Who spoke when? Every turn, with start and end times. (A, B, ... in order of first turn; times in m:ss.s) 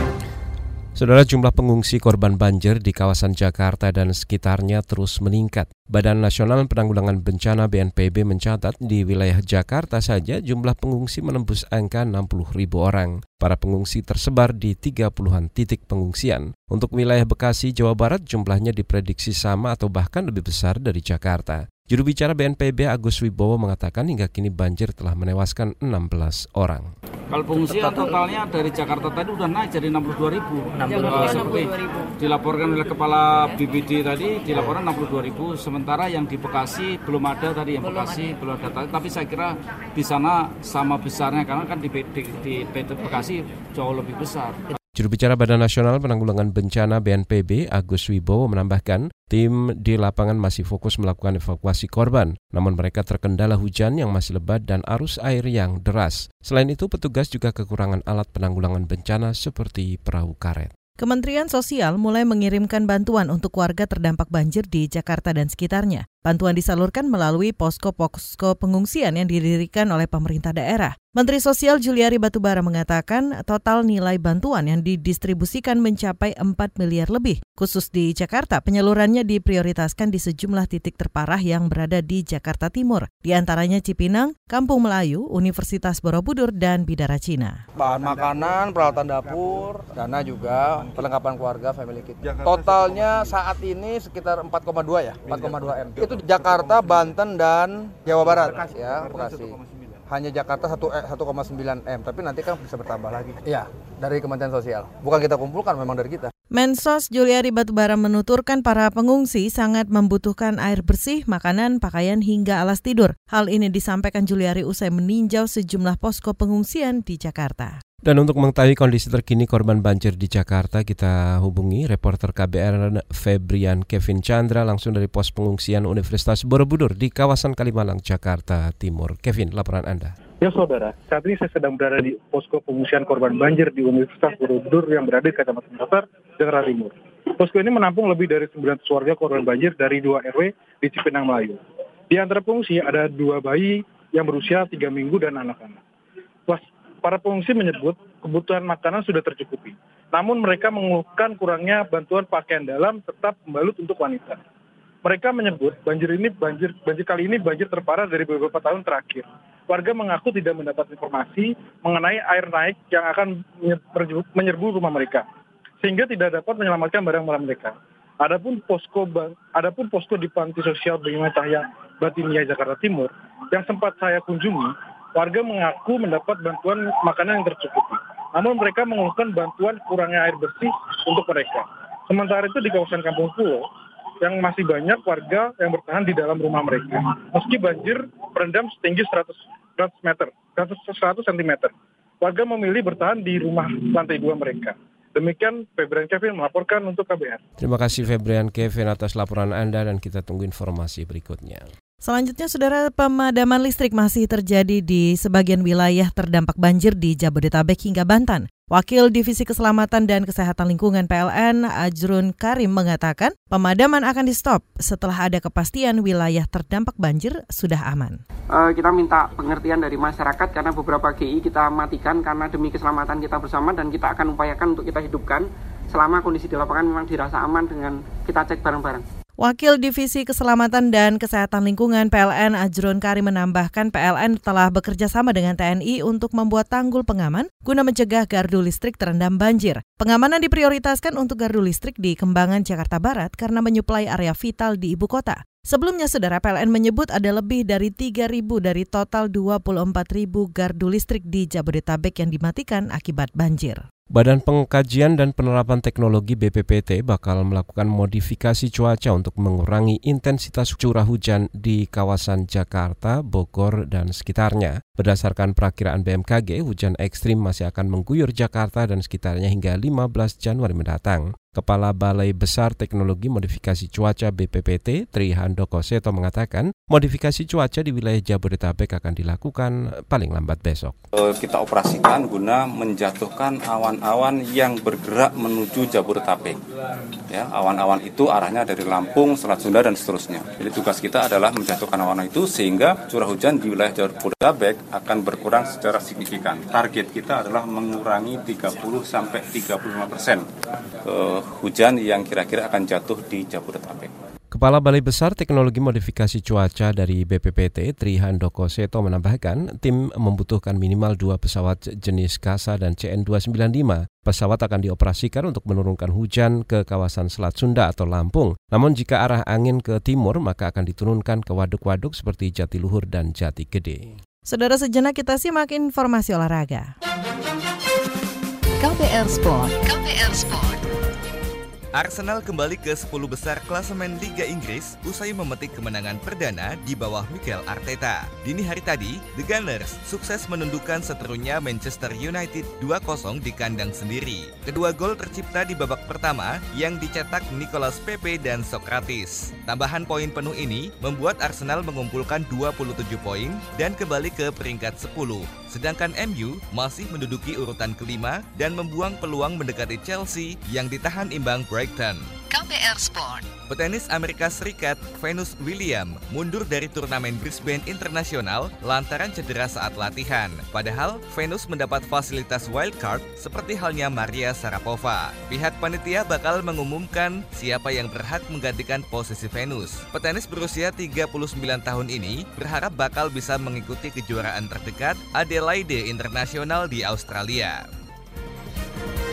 0:01.0-0:26.9 A
0:27.3-0:44.6 B
0:45.0-1:00.7 A
1:01.0-1:27.6 C
1:27.8-1:39.6 D
1:40.1-1:46.3 D
1:46.5-1:57.7 C
1:58.0-2:10.1 A
2:10.4-2:21.6 E
2:22.1-2:25.8 E
2:26.5-2:34.4 E
2:35.0-2:45.2 E
2:45.8-3:03.7 E
3:04.2-3:17.4 E
3:17.6-3:21.7 A
3:22.0-3:38.2 C
3:38.5-3:49.0 F
3:49.4-4:13.8 C
4:14.1-4:41.0 A
4:41.1-4:46.6 G
4:47.3-5:00.5 G
5:01.0-5:04.1 G
5:04.5-5:24.1 A
5:24.5-5:26.9 C
5:28.8-5:29.6 C
5:29.3-5:30.8 H
5:32.0-6:02.4 I
6:02.5-6:03.0 H
6:03.6-6:27.8 I